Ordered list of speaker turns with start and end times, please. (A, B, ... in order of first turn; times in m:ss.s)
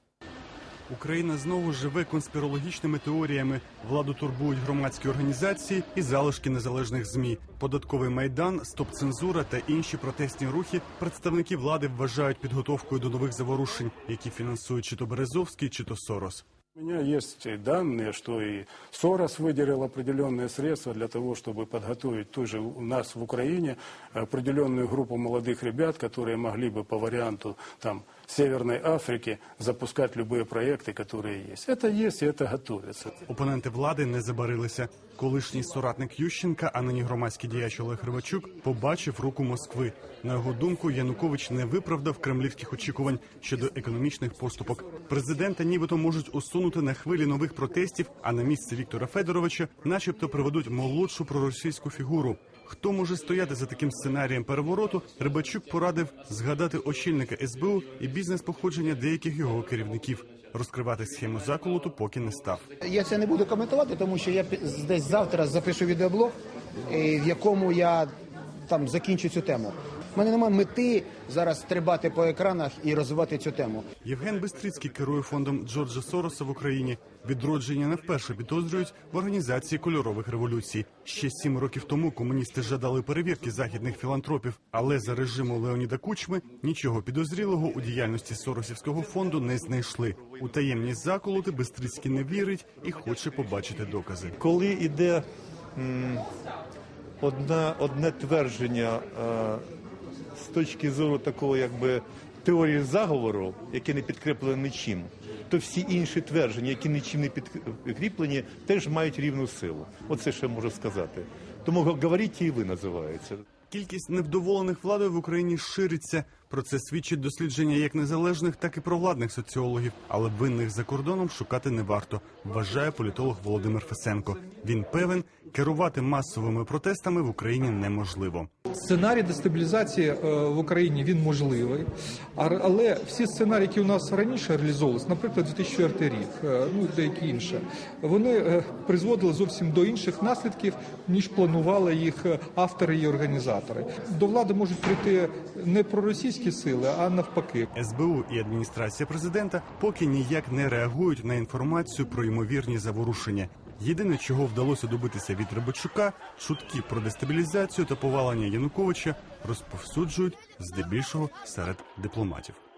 0:00.9-0:16.4 A
0:16.8-0:33.1 B
0:33.2-1:02.6 A
1:02.8-1:06.3 C
1:06.9-1:08.1 C
1:08.6-1:13.8 C
1:14.0-1:34.3 A
1:34.4-1:35.2 D
1:35.8-1:36.2 D
1:37.2-1:39.6 D
1:40.4-1:53.4 D
1:53.7-2:08.5 A
2:08.7-2:27.7 E
2:27.7-2:42.6 A